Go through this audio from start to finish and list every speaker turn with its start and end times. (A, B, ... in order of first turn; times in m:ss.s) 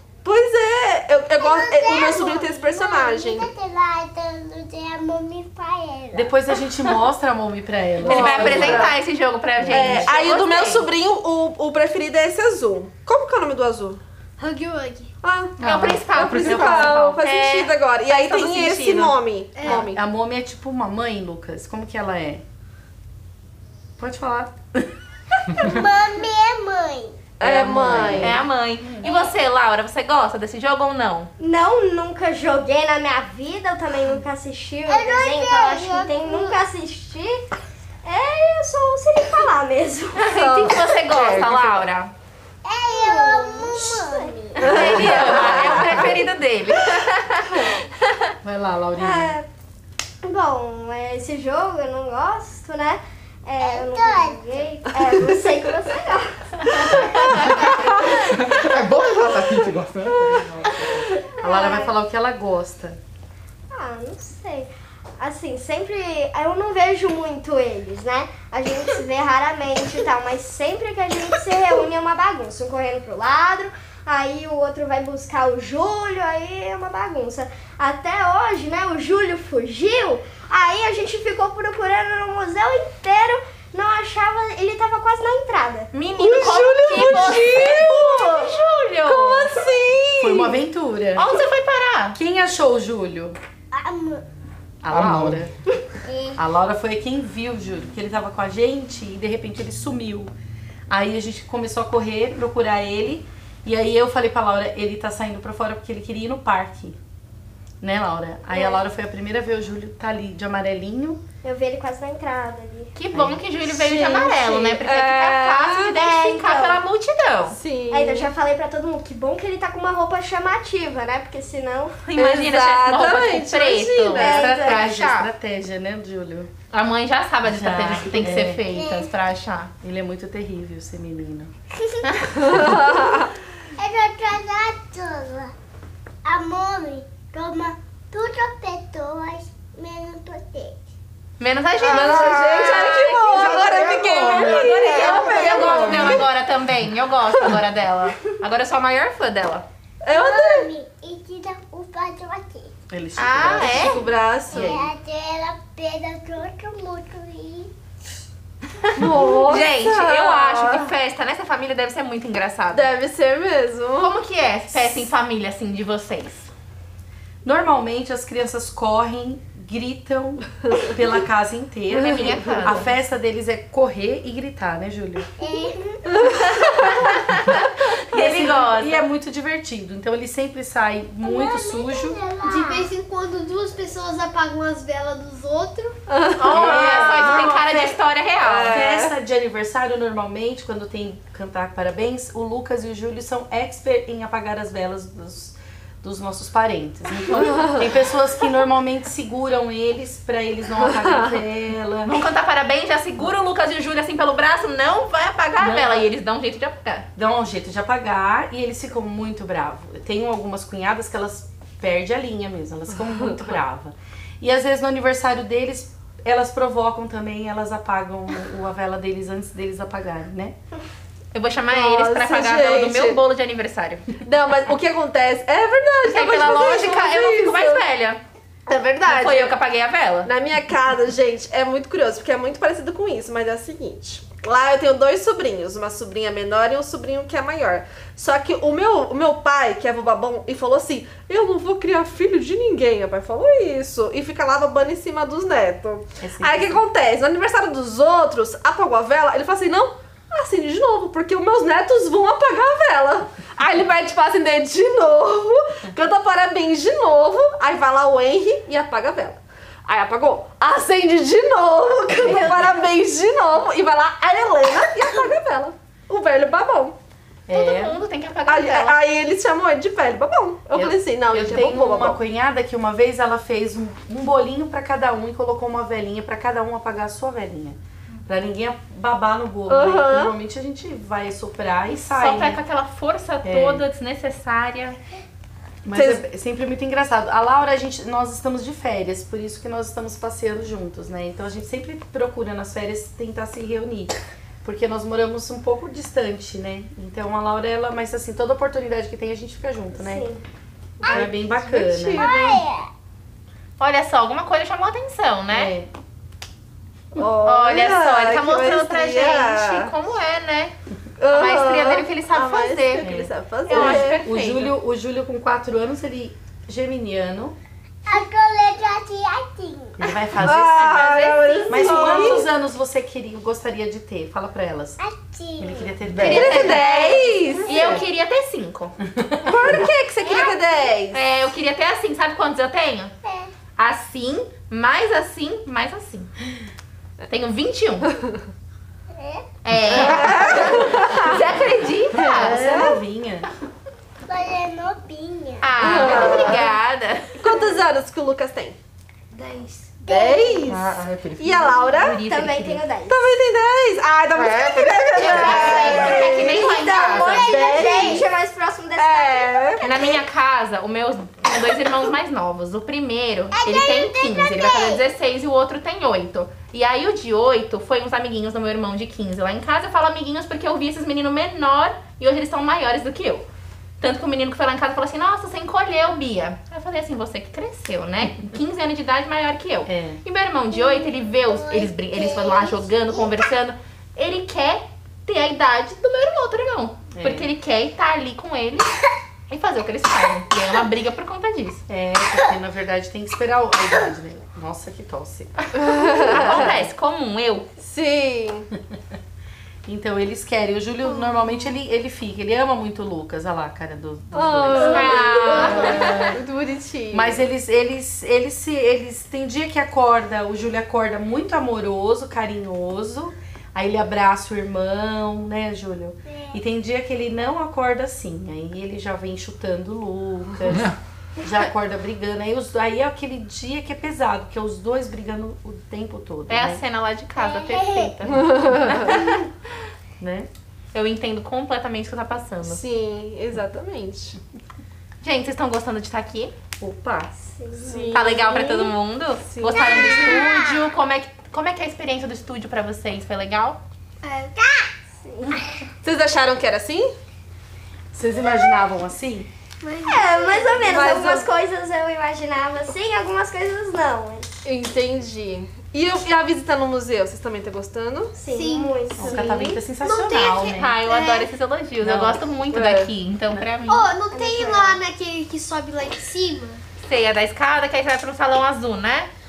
0:00.2-0:03.5 A
0:01.4-0:06.4 B
0:06.1-0:08.9 C
0:08.0-0:09.0 A
0:08.1-0:10.9 D
0:09.6-0:10.1 C
0:09.7-0:14.0 A
0:14.4-0:15.1 E
0:15.2-0:15.6 A
0:15.6-0:16.6 F
0:15.6-0:19.2 D
0:16.1-0:20.0 A
0:16.4-0:17.0 C
0:19.6-0:19.8 E
0:19.6-0:22.4 C
0:24.0-0:24.9 C
0:25.5-0:27.2 B
0:27.4-0:28.4 A
0:27.4-0:28.4 C
0:28.2-0:31.3 D
0:28.9-0:29.4 B
0:31.4-0:37.4 G
0:34.8-0:36.6 B
0:38.0-0:40.3 G
0:40.2-0:42.1 D
0:40.3-0:41.5 A
0:41.1-0:41.8 F
0:42.6-0:44.7 B
0:43.0-0:45.5 G
0:44.6-0:48.0 D
0:44.6-0:46.1 A
0:45.0-0:45.8 C
0:48.4-0:49.4 C
0:49.0-0:49.4 G
0:50.2-0:57.0 G
0:53.6-0:54.4 B
0:57.0-1:01.2 F
1:00.7-1:01.9 G
1:01.4-1:03.0 C
1:03.7-1:26.6 G
1:25.9-1:29.5 D
1:26.2-1:28.5 A
1:29.0-1:30.6 A
1:30.2-1:31.3 C
1:31.2-1:32.2 D
1:32.1-1:33.4 C
1:33.7-1:34.2 B
1:34.8-1:35.5 C
1:34.9-1:35.4 F
1:36.1-1:36.4 B
1:36.4-1:40.3 C
1:40.9-1:47.0 C
1:47.8-1:51.2 C
1:48.5-1:48.8 G
1:51.4-1:52.9 G
1:52.9-1:57.6 D
1:53.1-1:53.4 C
1:53.7-1:55.9 A
1:53.9-1:54.5 G
1:55.9-1:56.8 G
1:57.5-1:58.3 A
1:57.9-2:02.0 G
2:02.0-2:05.3 D
2:02.2-2:04.4 A
2:04.1-2:04.8 G
2:04.2-2:06.5 C
2:06.7-2:09.7 D
2:07.4-2:08.6 C
2:08.6-2:09.1 B
2:09.8-2:11.5 C
2:11.7-2:13.1 B
2:12.0-2:12.5 D
2:12.5-2:13.0 A
2:13.8-2:15.5 B
2:16.2-2:20.8 B
2:21.4-2:29.6 D
2:21.8-2:26.2 A
2:21.9-2:26.2 F
2:25.1-2:25.8 B
2:30.0-2:30.7 A
2:30.2-2:32.7 B
2:32.9-2:34.9 C
2:33.2-2:34.0 D
2:33.6-2:34.8 A
2:34.5-2:37.7 B
2:39.0-2:40.9 A
2:39.3-2:42.8 D
2:42.7-2:44.2 A
2:44.0-2:46.5 D
2:44.7-2:45.1 C
2:47.4-2:55.3 C
2:51.9-2:52.8 D
2:52.1-2:52.6 A
2:55.4-2:56.0 B
2:56.2-2:57.2 A
2:57.1-2:57.6 D
2:58.1-2:59.0 D
2:58.1-3:02.2 C
3:01.2-3:02.9 B
3:02.4-3:06.0 E
3:06.1-3:09.1 A
3:06.4-3:08.9 D
3:06.5-3:07.6 C
3:08.7-3:22.3 C
3:22.1-3:27.1 D
3:25.6-3:26.0 C
3:27.2-3:40.6 C
3:41.3-3:44.0 D
3:41.7-3:43.2 A
3:44.2-3:47.8 A
3:46.0-3:48.2 D
3:48.7-3:49.6 A
3:49.0-3:50.3 D
3:50.2-4:27.0 A
4:06.2-4:06.8 C
4:27.5-4:28.0 C
4:27.5-4:29.0 D
4:28.5-4:32.2 A
4:30.7-4:42.6 C
4:39.7-4:40.3 A
4:42.1-4:45.0 D
4:43.4-4:43.8 C
4:45.8-5:00.3 C
4:45.9-4:46.2 A
4:59.9-5:00.4 G
5:01.0-5:02.6 A
5:01.1-5:02.3 C
5:02.1-5:02.9 B
5:03.8-5:05.7 D
5:05.5-5:05.9 C
5:07.1-5:09.9 A
5:07.4-5:10.7 D
5:11.2-5:14.2 A
5:11.3-5:13.1 D
5:13.0-5:17.6 C
5:13.7-5:14.7 D
5:18.0-5:20.1 B
5:20.0-5:25.0 C
5:20.4-5:22.5 A
5:21.4-5:22.2 B
5:25.0-5:25.9 B
5:25.6-5:27.2 C
5:26.1-5:26.6 F
5:26.2-5:29.0 D
5:26.2-5:28.0 A
5:27.8-5:28.0 B
5:29.1-5:29.7 C
5:29.4-5:31.2 A
5:30.3-5:30.5 B
5:31.1-5:33.1 D
5:33.2-5:33.5 B
5:33.8-5:36.3 D
5:37.3-5:38.1 D
5:39.1-5:39.4 B
5:39.6-5:42.8 D
5:39.9-5:41.4 A
5:42.2-5:43.0 A
5:42.3-5:43.5 C
5:44.3-5:46.6 B
5:45.6-5:47.4 D
5:45.8-5:46.7 A
5:47.4-5:48.8 A
5:49.3-5:49.9 E
5:50.0-5:50.7 B
5:50.1-5:52.2 A
5:50.7-5:52.0 F
5:52.0-5:52.8 D
5:52.1-5:53.3 G
5:53.1-5:58.3 A
5:54.3-5:56.2 F
5:55.2-5:57.5 D
5:55.3-6:00.2 G
5:59.0-5:59.8 A
5:59.8-6:13.4 D
6:03.5-6:05.0 B
6:14.0-6:31.8 D
6:19.8-6:20.2 C
6:20.8-6:23.3 B
6:27.1-6:27.5 C
6:31.9-6:36.9 C
6:35.8-6:36.8 A
6:36.2-6:37.7 D
6:37.8-6:38.7 A
6:39.8-6:46.4 C
6:44.3-6:47.4 A
6:44.8-6:46.3 D
6:47.1-7:06.8 C
6:56.3-6:56.6 B
7:06.5-7:09.1 D
7:07.4-7:08.1 B
7:08.3-7:09.2 A
7:10.2-7:10.5 C
7:10.9-7:12.8 D
7:12.6-7:14.4 A
7:15.2-7:16.5 D
7:16.8-7:17.3 C
7:17.4-7:18.4 G
7:17.8-7:18.9 A
7:18.1-7:23.8 D
7:19.4-7:20.4 A
7:19.7-7:20.9 B
7:24.2-7:24.6 E
7:24.6-7:24.9 B
7:25.2-7:25.5 G
7:26.0-7:27.1 A
7:28.1-7:29.5 C
7:29.8-7:30.9 E
7:30.0-7:34.5 G
7:30.8-7:31.5 A
7:34.6-7:38.4 A
7:38.3-7:39.7 G
7:38.5-7:40.5 E
7:39.2-7:41.0 C
7:40.2-7:44.1 D
7:41.0-7:41.5 E
7:42.0-7:42.4 C
7:42.7-7:43.1 A
7:43.8-7:46.8 E
7:44.3-7:45.0 G
7:47.0-7:49.3 D